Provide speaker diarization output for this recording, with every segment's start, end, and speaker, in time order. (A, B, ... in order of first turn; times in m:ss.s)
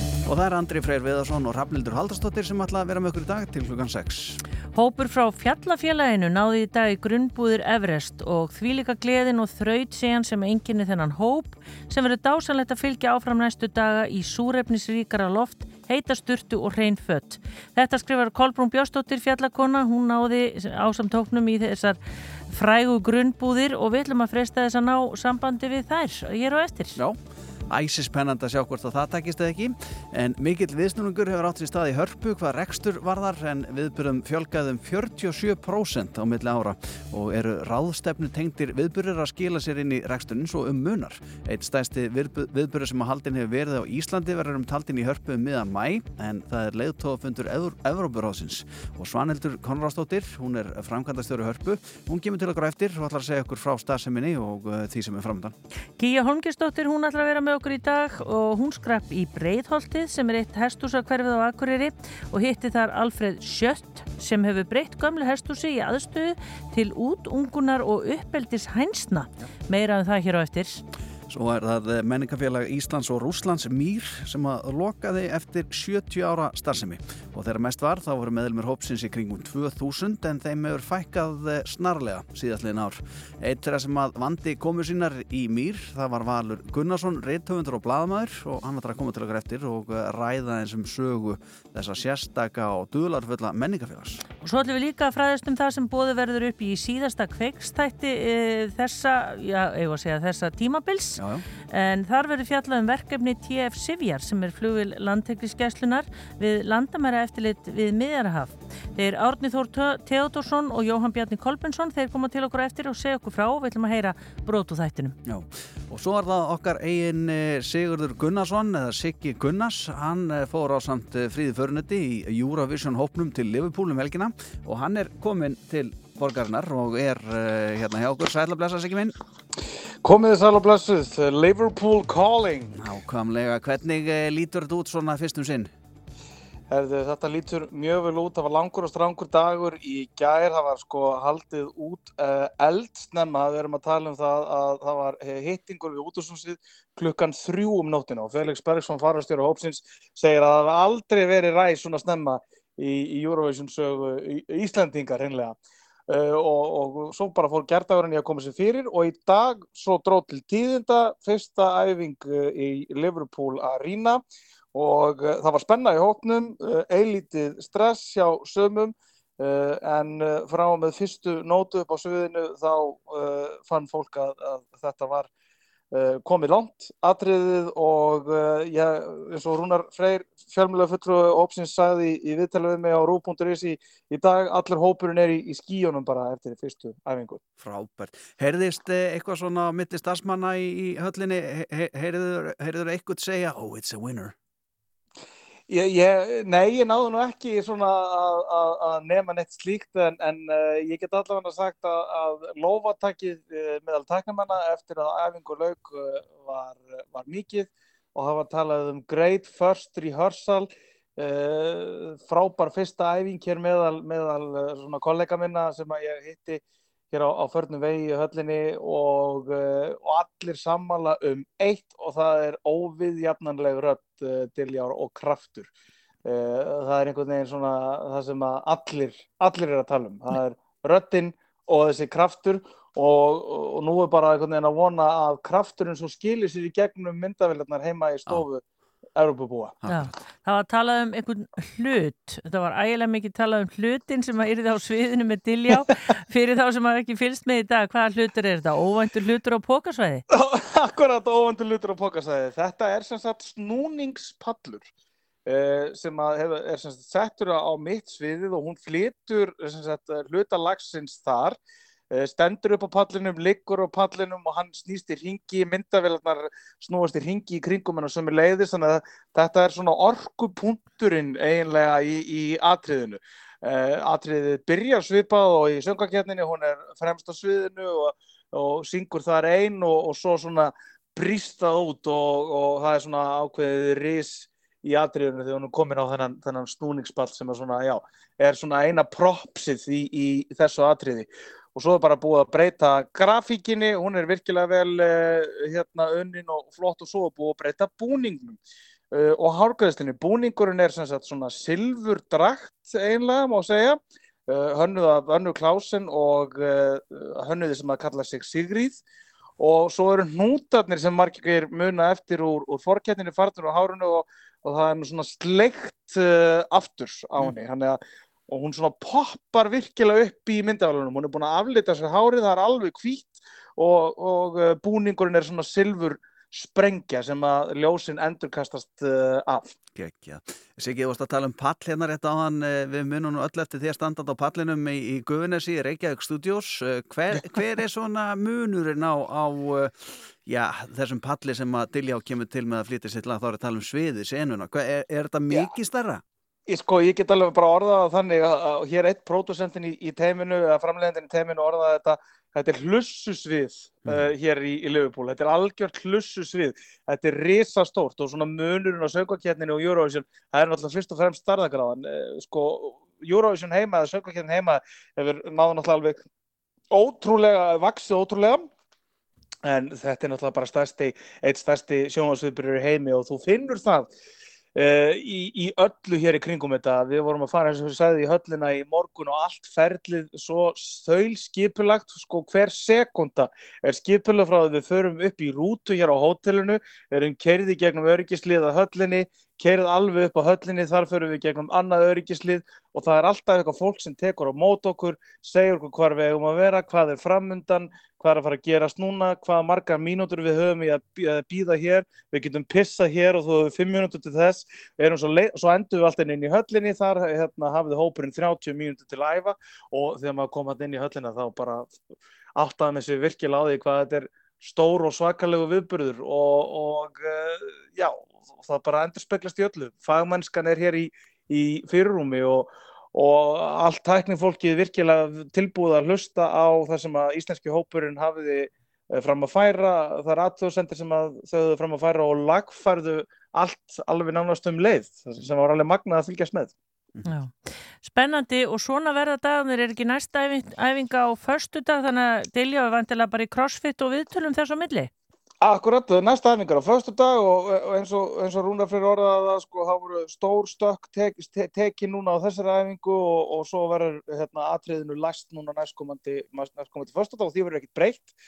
0:00.3-0:04.4 A
0:04.8-0:22.0 B
0:22.5-0:27.0 B
0:27.7-0:55.5 A
0:56.0-1:10.8 B
1:11.3-1:34.2 A
1:34.4-1:55.2 B
1:41.2-1:41.4 A
1:55.2-2:09.2 A
2:10.0-2:12.8 C
2:12.7-2:15.7 A
2:16.7-2:35.6 C
2:36.1-2:44.2 C
2:44.7-2:55.3 C
2:55.9-3:07.4 C
3:07.6-3:14.4 A
3:15.7-3:36.6 C
3:37.1-3:45.7 C
3:46.2-3:58.6 C
3:59.2-3:59.8 C
3:59.8-4:00.2 A
3:59.9-4:10.2 B
4:10.3-4:14.9 C
4:15.5-4:21.6 C
4:22.1-4:58.6 C
4:59.1-5:09.0 C
5:09.6-5:29.7 C
5:30.0-5:46.2 A
5:46.7-6:06.2 C
6:06.9-6:08.7 C
6:09.7-6:14.1 C
6:14.8-6:51.9 C
6:52.6-7:16.7 C
7:17.3-7:25.1 B
7:25.6-7:38.3 C